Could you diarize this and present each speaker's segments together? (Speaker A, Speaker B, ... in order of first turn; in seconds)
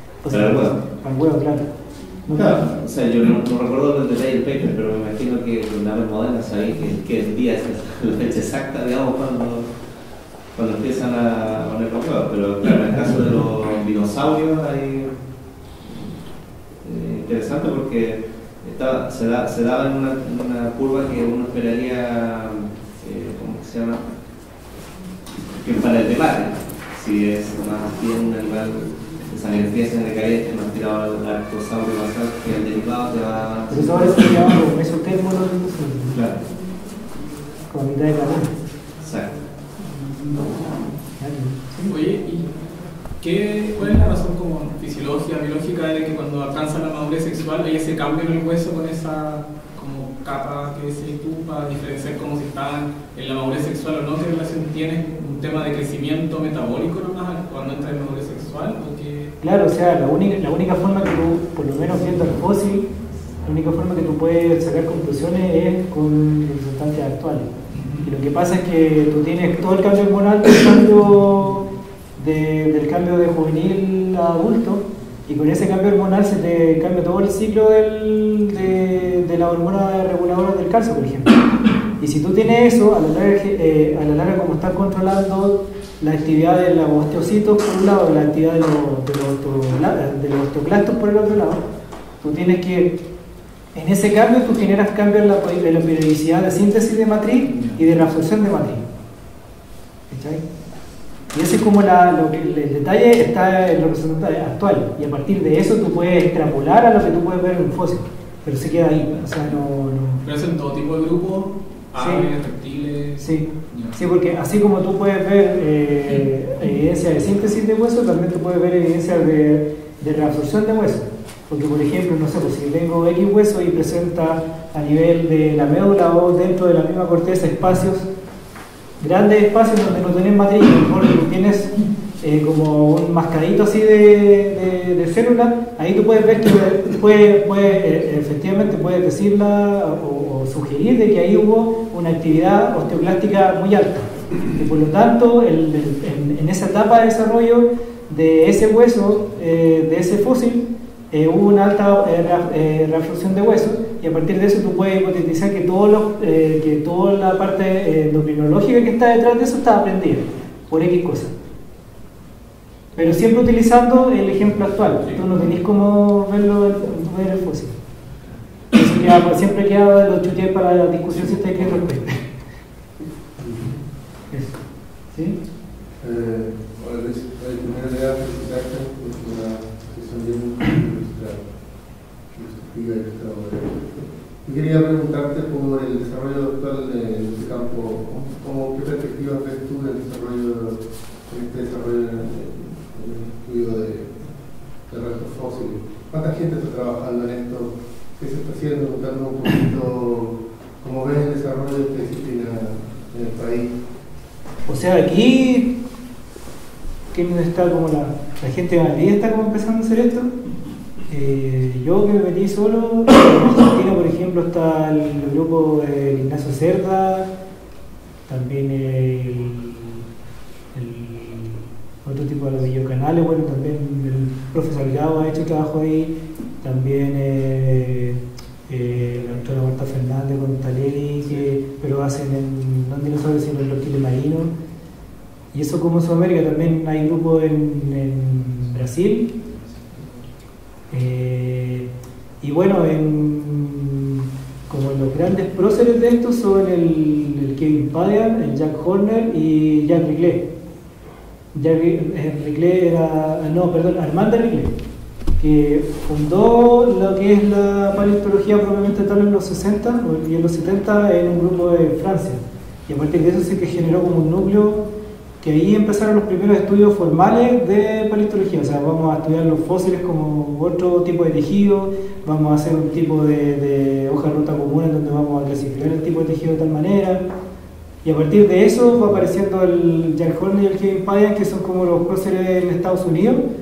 Speaker A: 0.2-2.6, 33.7-36.2, 37.7-38.5, 41.2-42.0, 59.4-62.9, 63.4-67.5, 68.0-81.3, 82.0-91.6, 92.2-93.0, 93.7-98.9, 100.1-100.4, 101.3-110.2, 112.0-112.3, 113.2-128.1, 129.0-161.3, 162.9-167.8, 168.7-172.2, 174.3-175.4, 204.7-205.8, 207.1-210.3, 211.1-217.3, 218.3-220.0, 220.7-234.5, 235.5-239.3, 240.9-241.9, 242.4-250.5, 251.5-254.7, 255.4-264.9, 265.4-277.2, 278.0-283.4
Speaker B: 0.3-0.7, 2.3-9.7, 10.5-15.1, 15.8-16.1, 16.8-24.0, 25.6-34.6, 36.1-36.4, 39.0-39.3
Speaker C: 41.9-42.5, 43.2-59.3, 67.7-68.1, 110.2-114.0, 239.7-240.1
Speaker D: 173.0-173.7, 176.0-203.7